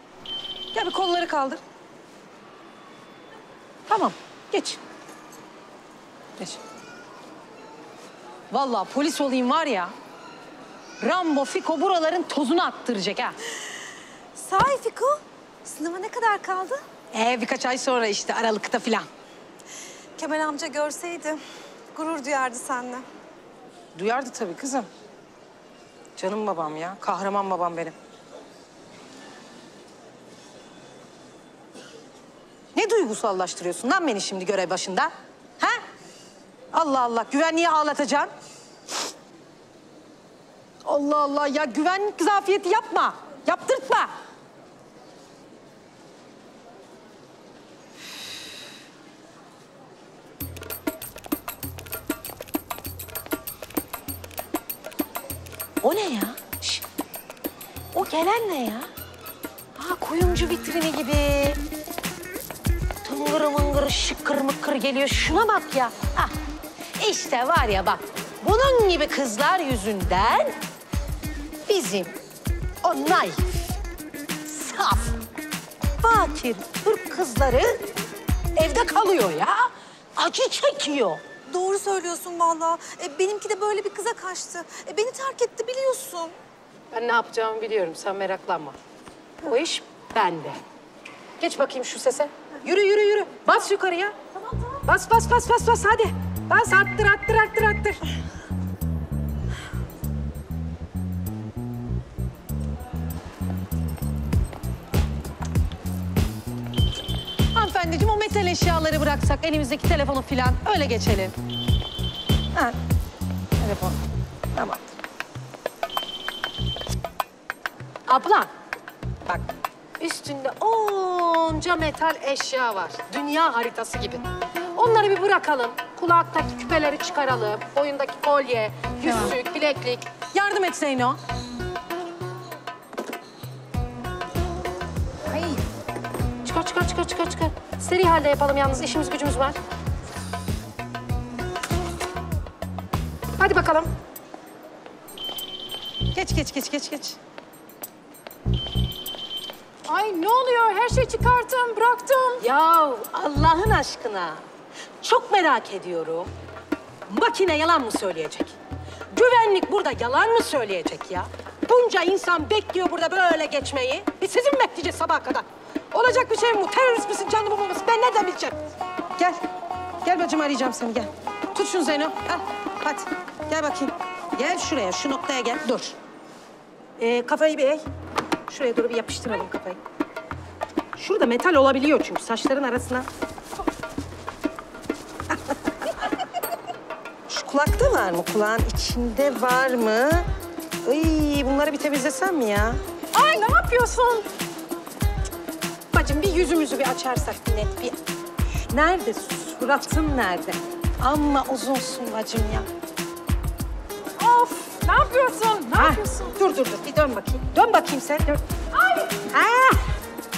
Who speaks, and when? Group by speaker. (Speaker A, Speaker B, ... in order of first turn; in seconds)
Speaker A: 0.7-1.6, 3.9-4.8, 8.5-9.9, 11.0-13.3, 17.1-19.1, 23.9-24.9, 26.2-27.9, 32.7-35.8, 36.7-38.3, 40.8-44.1, 55.8-56.8, 57.9-58.9, 59.8-61.6, 63.0-66.3, 67.0-70.6, 71.7-72.1, 72.8-73.4, 74.5-75.2, 76.0-77.8, 78.5-81.2, 86.9-88.8, 89.4-90.6, 91.4-94.2, 94.8-98.0, 107.5-111.3, 113.6-114.0, 114.5-114.9, 118.1-118.5, 120.0-131.2, 136.4-139.6, 143.4-143.9, 146.1-147.2, 149.9-154.4, 155.0-156.3, 157.1-158.6, 159.1-168.6, 170.0-175.9, 177.0-177.8, 178.5-179.8, 181.0-183.1, 187.3-190.3, 190.8-194.3, 195.9-197.9, 198.7-202.7, 205.7-208.5, 209.1-209.8
Speaker B: 14.3-16.8, 20.2-21.4, 21.9-23.0, 81.5-86.3, 135.3-135.6, 152.1-152.3, 204.2-206.3, 208.7-209.1